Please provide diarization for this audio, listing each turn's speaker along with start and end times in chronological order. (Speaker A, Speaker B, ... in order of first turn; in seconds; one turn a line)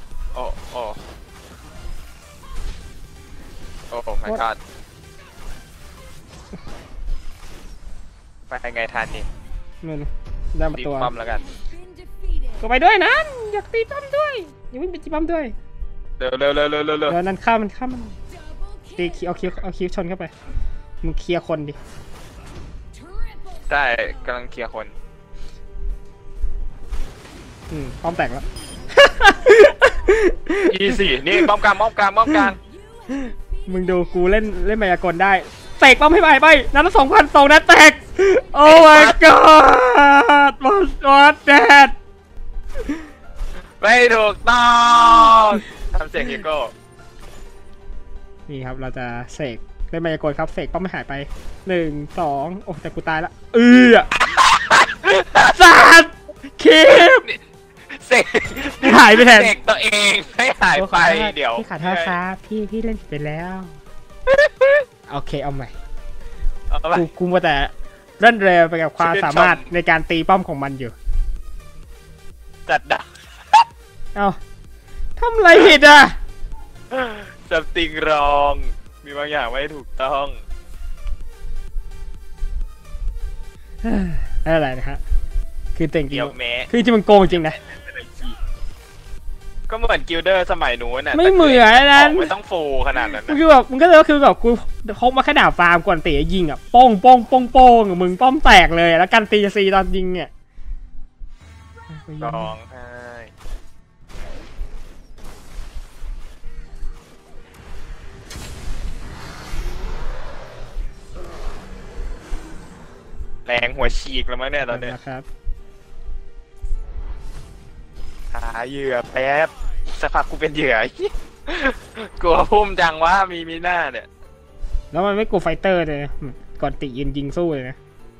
Speaker A: 0.3-0.9
Speaker A: 3.9-4.6
Speaker A: 8.5-9.3
Speaker B: 9.8-11.1
Speaker A: 10.7-11.5
Speaker C: 11.3-12.6
Speaker B: 12.6-15.5
Speaker A: 16.2-17.1
Speaker B: 17.1-18.2
Speaker C: 18.5-19.0
Speaker B: 19.0-20.3
Speaker B: 21.0-21.8
Speaker C: 23.1-23.6
Speaker A: 23.7-24.9
Speaker B: 27.7-31.5
Speaker A: 30.7-32.6
Speaker C: 32.9-33.4
Speaker B: 33.7-41.9
Speaker A: 38.6-39.2
Speaker A: 43.8-46.7
Speaker B: 48.5-54.1
Speaker A: 54.3-55.5
Speaker B: 55.5-57.3
Speaker A: 56.9-57.4
Speaker A: 57.9-62.2
Speaker B: 58.8-59.5
Speaker B: 60.7-63.8
Speaker A: 64.3-64.8
Speaker B: 65.1-65.7
Speaker A: 66.7-67.1
Speaker B: 66.9-70.9
Speaker A: 69.0-69.7
Speaker A: 72.7-73.6
Speaker B: 75.2-76.2
Speaker A: 76.9-80.4
Speaker B: 83.8-85.0
Speaker B: 85.8-87.6
Speaker A: 86.1-86.7
Speaker A: 87.4-88.4
Speaker A: 89.7-93.4
Speaker B: 91.1-92.3
Speaker B: 92.9-100.3
Speaker B: 101.9-102.5
Speaker A: 102.2-103.3
Speaker A: 113.5-114.9
Speaker B: 114.7-115.2
Speaker A: 118.3-124.1
Speaker B: 124.9-127.8